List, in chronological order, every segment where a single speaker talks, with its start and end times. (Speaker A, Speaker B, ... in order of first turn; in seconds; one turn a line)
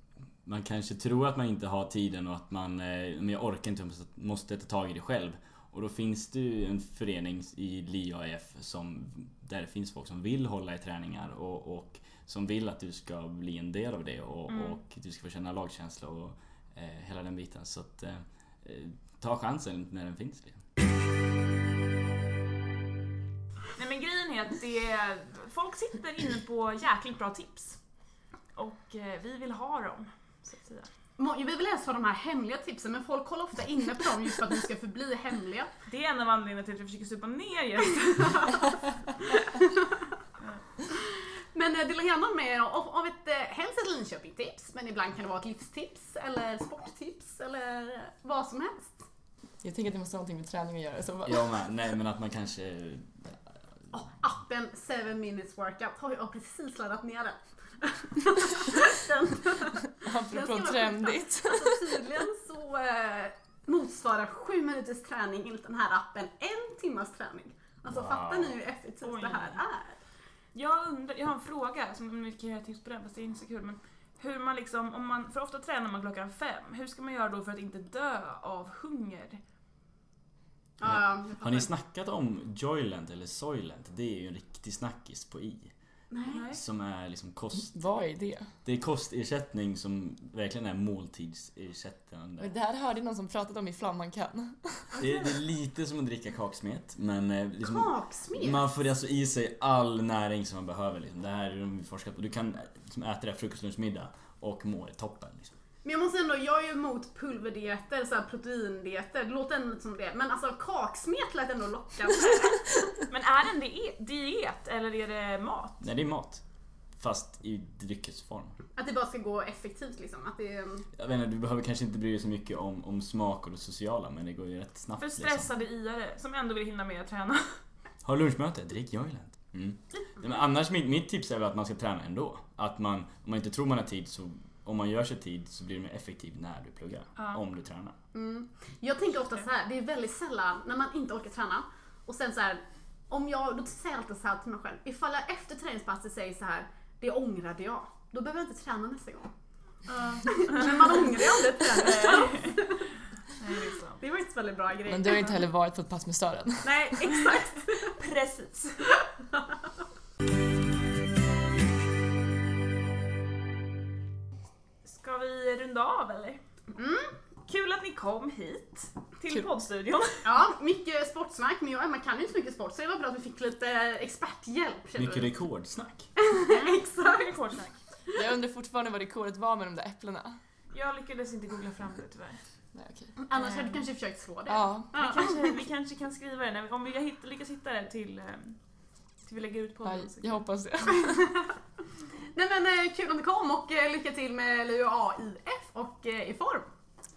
Speaker A: 0.5-20.6
Speaker B: 14.5-14.8
Speaker B: 23.8-27.8
Speaker B: 28.6-30.9
Speaker C: 31.2-35.7
Speaker B: 35.9-38.7
Speaker C: 38.2-40.1
Speaker C: 40.9-49.0
Speaker D: 49.6-51.5
Speaker A: 51.3-53.3
Speaker C: 53.9-70.0
Speaker D: 59.9-61.9
Speaker A: 67.9-68.5
Speaker B: 69.0-69.6
Speaker B: 70.5-79.4
Speaker C: 80.8-81.7
Speaker A: 80.8-85.7
Speaker C: 86.1-86.5
Speaker B: 86.3-86.6
Speaker A: 86.5-87.8
Speaker D: 87.7-88.5
Speaker A: 88.7-92.5
Speaker D: 92.4-94.9
Speaker A: 95.0-105.5
Speaker C: 97.6-98.6
Speaker C: 105.8-112.7
Speaker B: 112.2-115.8
Speaker A: 115.8-116.4
Speaker A: 117.0-118.6
Speaker C: 118.8-120.9
Speaker A: 121.0-125.5
Speaker B: 125.0-127.6
Speaker A: 128.0-137.9
Speaker C: 138.1-149.3
Speaker B: 149.9-152.8
Speaker C: 150.2-152.9
Speaker B: 153.3-154.0
Speaker C: 154.0-155.4
Speaker D: 154.9-156.9
Speaker B: 156.6-158.8
Speaker C: 156.9-157.9
Speaker B: 164.8-166.4
Speaker C: 166.7-167.1
Speaker B: 167.5-170.2
Speaker C: 170.2-175.3
Speaker A: 175.0-176.1
Speaker C: 176.2-177.4
Speaker B: 176.5-177.8
Speaker D: 178.1-180.4
Speaker B: 180.7-182.4
Speaker D: 182.7-183.1
Speaker C: 183.2-185.6
Speaker B: 183.4-183.8
Speaker D: 184.5-184.9
Speaker B: 184.9-188.6
Speaker B: 189.2-190.4
Speaker D: 189.8-191.2
Speaker C: 190.9-191.6
Speaker C: 192.3-196.7